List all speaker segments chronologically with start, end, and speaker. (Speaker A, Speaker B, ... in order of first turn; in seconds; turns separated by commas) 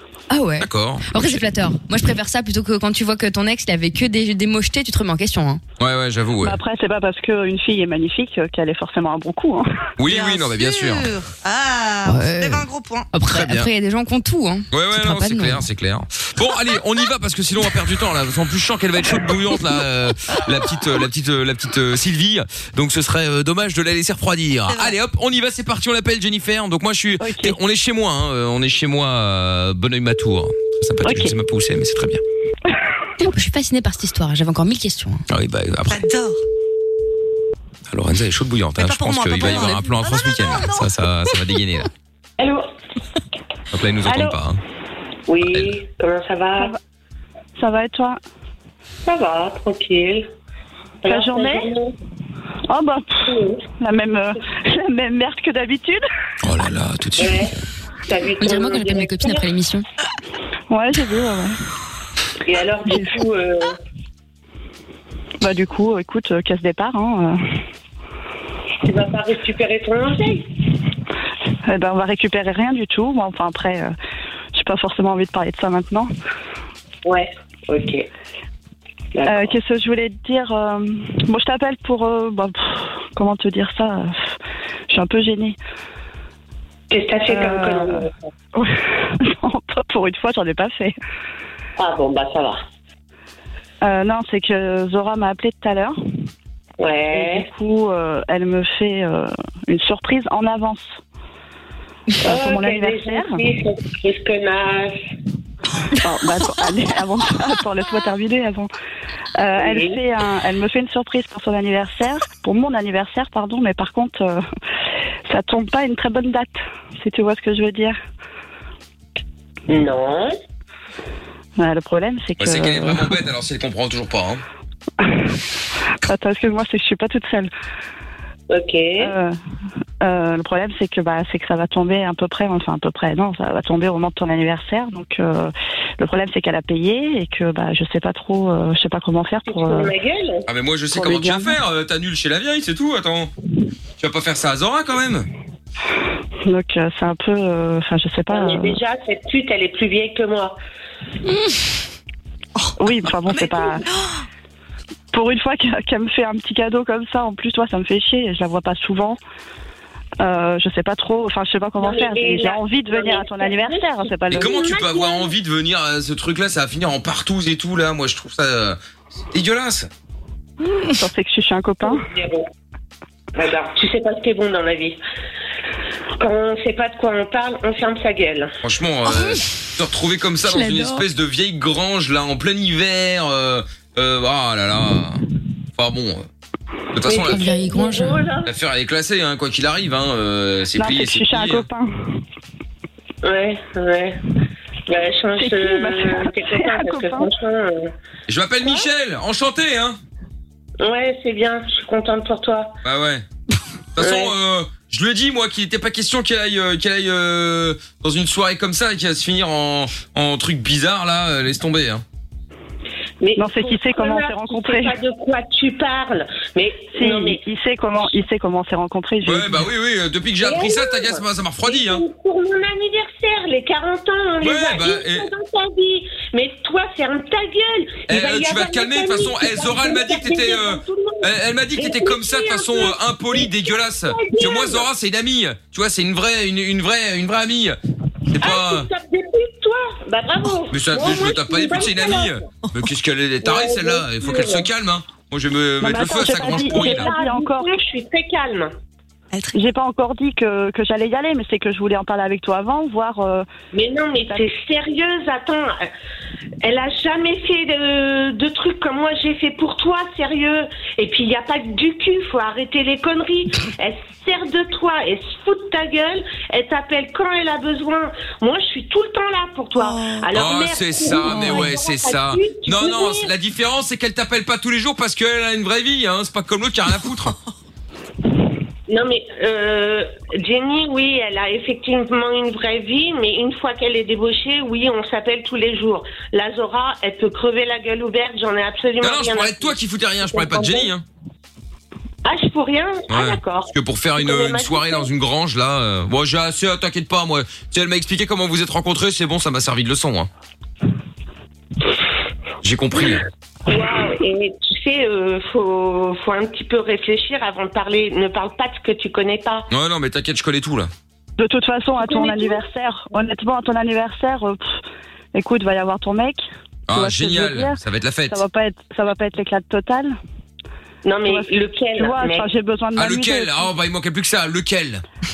Speaker A: 0.3-5.6, Speaker B: 0.6-1.4, Speaker B: 5.8-6.6, Speaker C: 6.4-9.6, Speaker B: 10.0-11.1, Speaker D: 10.1-13.1, Speaker A: 12.1-15.7, Speaker B: 13.3-13.7, Speaker B: 14.7-32.2, Speaker D: 24.7-24.9, Speaker C: 27.2-27.6, Speaker C: 31.0-31.3, Speaker A: 33.2-35.2, Speaker B: 35.3-36.0, Speaker D: 35.9-36.4, Speaker B: 37.9-41.9, Speaker D: 38.8-41.6, Speaker E: 42.4-42.7, Speaker B: 43.7-44.6, Speaker E: 45.3-46.7, Speaker B: 45.5-45.8, Speaker C: 47.6-48.2, Speaker E: 49.1-50.3, Speaker E: 51.0-51.9, Speaker C: 51.0-51.7, Speaker C: 52.7-56.0, Speaker E: 53.3-53.6, Speaker B: 56.4-57.5, Speaker E: 57.2-57.5, Speaker E: 58.1-59.5, Speaker A: 58.4-59.8, Speaker C: 60.7-61.6, Speaker E: 62.5-63.8, Speaker C: 62.9-63.2, Speaker C: 65.4-67.4, Speaker E: 68.8-70.5, Speaker C: 71.7-73.9, Speaker C: 74.5-76.1, Speaker E: 77.0-78.1, Speaker E: 79.1-79.6, Speaker C: 79.2-84.3, Speaker C: 84.9-85.6, Speaker E: 86.9-88.1, Speaker C: 87.3-90.9, Speaker E: 91.8-92.6, Speaker C: 93.8-96.0, Speaker E: 96.8-97.5, Speaker C: 97.1-100.9, Speaker C: 102.2-103.4, Speaker E: 102.2-105.0, Speaker C: 106.0-108.7, Speaker C: 109.4-114.5, Speaker E: 109.6-110.0, Speaker C: 115.3-118.0, Speaker E: 119.7-120.3, Speaker C: 121.6-123.2, Speaker B: 122.4-124.4, Speaker C: 125.0-125.3, Speaker C: 126.1-127.5, Speaker E: 128.5-129.1, Speaker C: 129.0-129.4, Speaker C: 130.0-139.9, Speaker E: 139.5-140.4, Speaker B: 140.5-143.3, Speaker C: 140.9-141.6, Speaker B: 144.0-145.3, Speaker C: 146.4-148.8, Speaker E: 148.3-150.6, Speaker C: 152.8-153.8, Speaker D: 153.4-154.2, Speaker C: 155.1-159.2, Speaker C: 160.2-164.6, Speaker E: 161.8-165.3, Speaker B: 164.3-168.8, Speaker B: 169.3-169.9, Speaker C: 170.9-172.1, Speaker E: 171.8-172.4, Speaker E: 173.3-175.0, Speaker E: 176.2-178.5, Speaker B: 178.6-185.2, Speaker A: 180.4-181.1, Speaker B: 185.8-186.3, Speaker B: 186.9-187.4, Speaker E: 187.1-188.5, Speaker A: 187.3-188.2, Speaker B: 188.4-191.6, Speaker C: 190.8-191.9, Speaker E: 193.2-194.2, Speaker E: 194.9-197.9, Speaker C: 195.4-197.3, Speaker B: 198.3-200.0, Speaker E: 200.8-202.7, Speaker B: 202.8-203.2, Speaker B: 203.9-212.0, Speaker E: 204.0-204.3, Speaker E: 213.2-217.4, Speaker C: 213.4-214.9, Speaker C: 216.9-219.7, Speaker B: 219.3-222.0, Speaker E: 220.4-234.9, Speaker B: 224.4-225.3, Speaker B: 228.1-237.8, Speaker B: 238.3-238.9, Speaker E: 238.4-242.4, Speaker B: 240.7-247.1, Speaker E: 243.4-244.7, Speaker C: 245.8-247.8, Speaker E: 246.5-248.7, Speaker D: 249.3-249.6, Speaker C: 249.5-253.4, Speaker E: 253.7-255.9, Speaker E: 256.6-273.3, Speaker D: 269.8-270.3, Speaker B: 270.3-277.4, Speaker D: 271.3-271.7, Speaker E: 278.9-290.9, Speaker B: 289.0-291.0, Speaker E: 292.2-295.1, Speaker B: 293.1-300.3, Speaker B: 302.6-303.2, Speaker E: 303.0-309.7, Speaker B: 309.7-310.9, Speaker C: 311.4-314.8, Speaker E: 312.0-312.6, Speaker C: 315.3-320.2, Speaker B: 316.9-318.4, Speaker E: 321.0-322.5, Speaker C: 321.2-323.7, Speaker B: 322.9-325.0